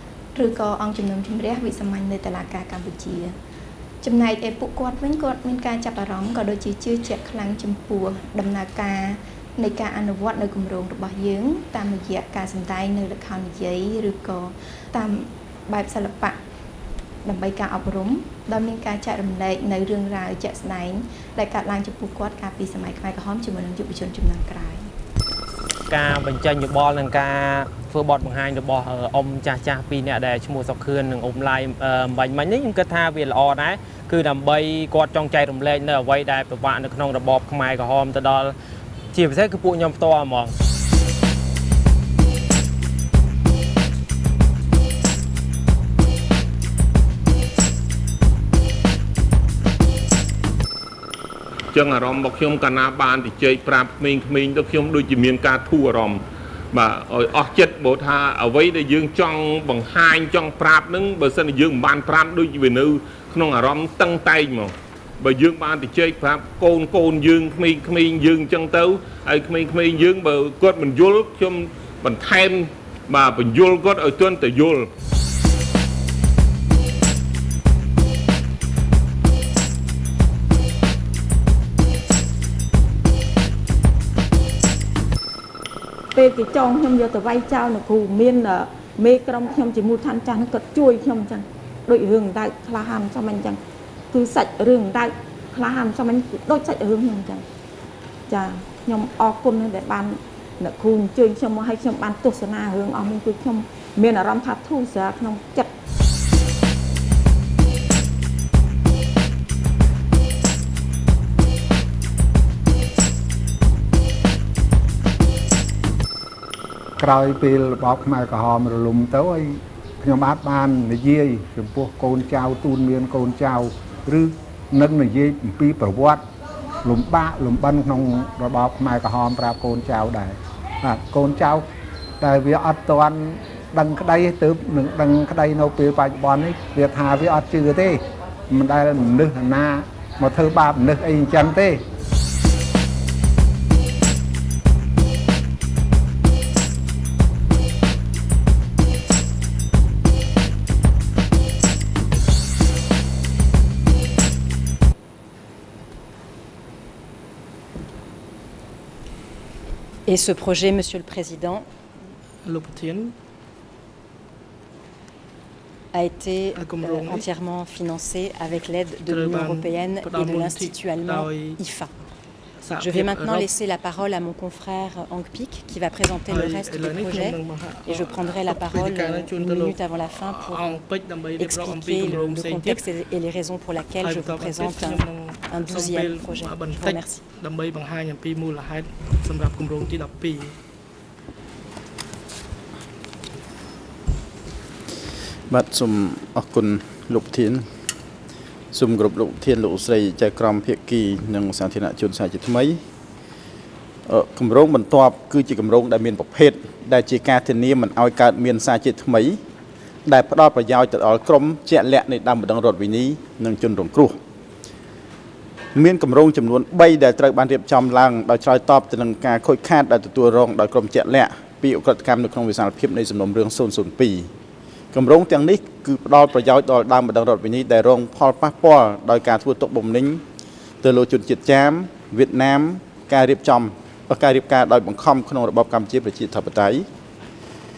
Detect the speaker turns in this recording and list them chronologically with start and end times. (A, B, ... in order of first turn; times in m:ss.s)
0:00.3-0:03.3 A
0:04.0-0:16.4 A
0:17.2-0:24.9 A
0:25.9-0:38.5 B
0:39.1-0:40.5 B
0:51.7-1:14.9 C
1:26.1-1:33.6 D
1:34.1-1:37.4 D
1:38.3-1:45.7 D
1:57.0-2:06.2 E
2:06.8-2:11.6 E
2:12.2-2:21.8 E
2:40.0-2:41.6 F
2:42.4-2:43.1 G
2:45.9-2:51.9 F
2:46.5-2:47.3 G
2:49.0-2:51.6 G
2:52.6-2:53.5 G
2:52.8-3:00.8 F
2:56.3-3:02.8 G
3:01.4-3:07.2 F
3:04.0-3:10.6 G
3:15.5-3:17.6 H
3:18.7-3:22.8 H
3:24.0-3:29.4 H
3:30.0-3:34.2 H
3:35.7-3:44.3 H
3:44.9-3:50.2 H
3:50.8-3:56.8 H